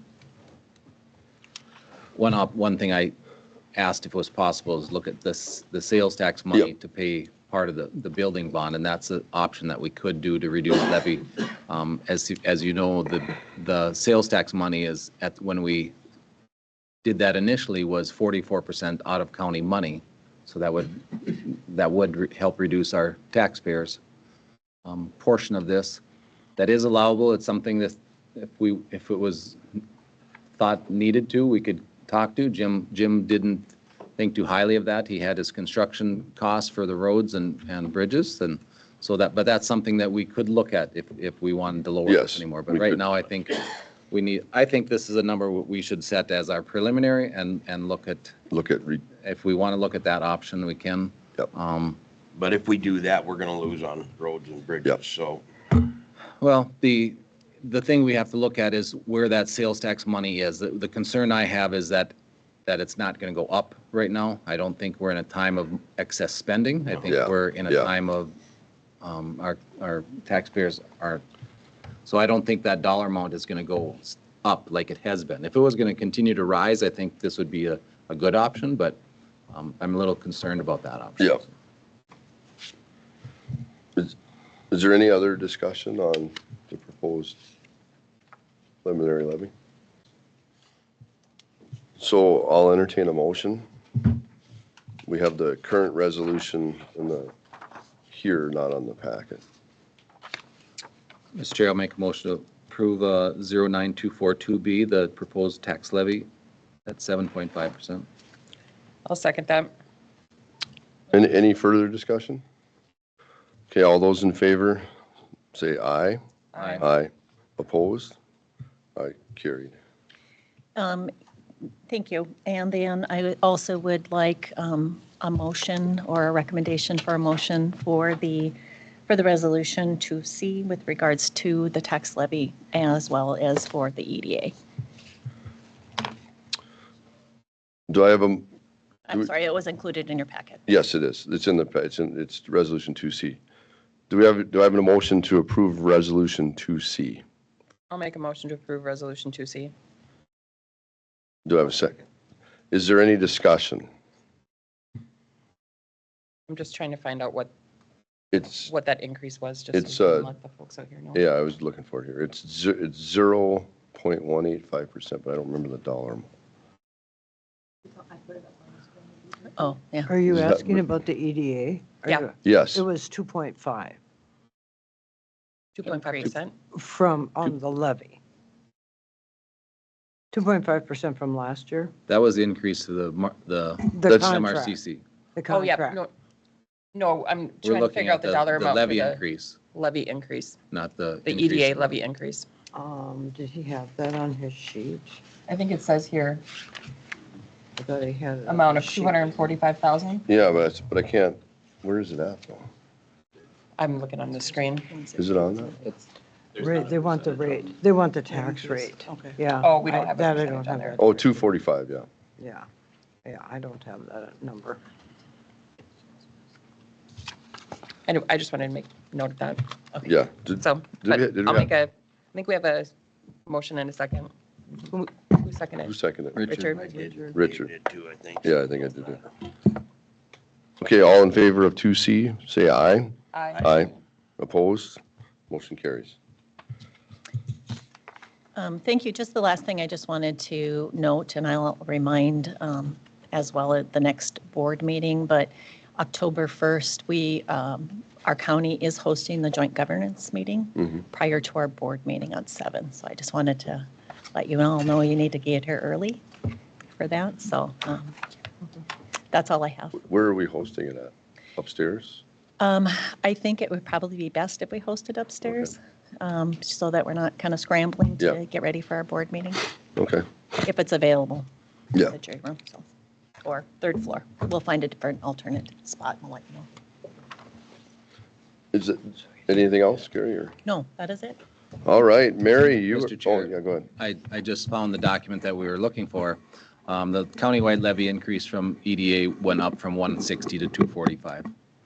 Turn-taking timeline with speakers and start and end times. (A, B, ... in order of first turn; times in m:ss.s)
0:02.2-0:03.1 A
0:03.7-0:15.9 A
0:17.0-0:24.0 A
0:24.8-0:26.0 A
0:26.6-0:29.6 A
0:30.6-0:48.3 A
0:42.1-0:43.0 B
0:48.5-0:49.0 B
0:49.2-0:52.0 A
0:52.3-0:55.4 C
0:56.4-1:02.1 A
1:02.6-1:08.3 A
1:07.1-1:07.9 B
1:09.0-1:11.2 A
1:12.0-1:19.0 A
1:19.5-1:21.5 A
1:24.7-1:27.4 B
1:28.8-1:29.5 B
1:32.0-1:34.1 B
1:35.0-1:37.3 B
1:38.1-1:39.4 B
1:41.3-1:46.3 A
1:46.8-1:48.1 A
1:49.0-1:49.7 D
1:51.1-1:52.4 B
1:53.7-1:54.8 B
1:55.5-1:56.2 B
1:56.5-1:56.9 D
1:56.6-1:56.8 A
1:56.8-1:58.2 B
1:59.0-1:59.8 B
2:00.8-2:01.1 E
2:01.9-2:08.5 E
2:09.1-2:14.5 E
2:17.9-2:18.5 B
2:19.1-2:20.6 E
2:20.7-2:23.4 B
2:24.1-2:27.2 B
2:27.9-2:29.7 D
2:31.4-2:32.0 B
2:32.7-2:33.9 B
2:36.5-2:37.5 D
2:38.3-2:38.7 B
2:38.6-2:41.2 D
2:39.7-2:40.3 B
2:41.1-2:46.3 B
2:49.5-2:50.1 E
2:50.1-2:54.0 F
2:50.3-2:50.8 B
2:52.4-2:52.8 B
2:55.8-2:56.5 D
2:56.7-2:58.2 F
3:00.3-3:01.9 F
3:02.1-3:05.0 A
3:03.9-3:04.8 F
3:05.3-3:06.0 F
3:05.5-3:06.1 D
3:06.9-3:09.2 D
3:07.6-3:09.6 A
3:09.7-3:10.6 D
3:10.7-3:11.9 A
3:11.2-3:12.5 D
3:12.7-3:15.2 F
3:15.5-3:16.4 D
3:17.8-3:19.2 F
3:18.4-3:20.2 D
3:20.3-3:22.7 B
3:23.8-3:25.2 D
3:25.2-3:25.7 B
3:26.6-3:31.4 F
3:29.2-3:31.0 D
3:31.0-3:32.1 B
3:32.4-3:32.7 F
3:33.2-3:34.8 F
3:38.1-3:39.6 D
3:40.0-3:41.7 B
3:40.5-3:42.9 D
3:43.4-3:44.3 D
3:44.8-3:45.9 D
3:45.8-3:46.6 B
3:46.4-3:46.7 A
3:46.5-3:46.9 D
3:46.6-3:49.2 C
3:47.3-3:47.7 B
3:48.4-3:49.3 B
3:50.8-3:56.2 B
3:53.3-3:53.9 D
3:58.6-4:16.2 E
4:17.0-4:18.2 E
4:19.3-4:20.0 E
4:20.0-4:22.2 B
4:22.6-4:29.6 E
4:25.4-4:25.7 B
4:30.0-4:30.2 B
4:30.5-4:31.4 E
4:32.0-4:32.8 E
4:33.4-4:36.7 E
4:38.7-4:40.5 B
4:40.6-4:41.4 E
4:41.8-4:43.9 B
4:42.9-4:51.5 A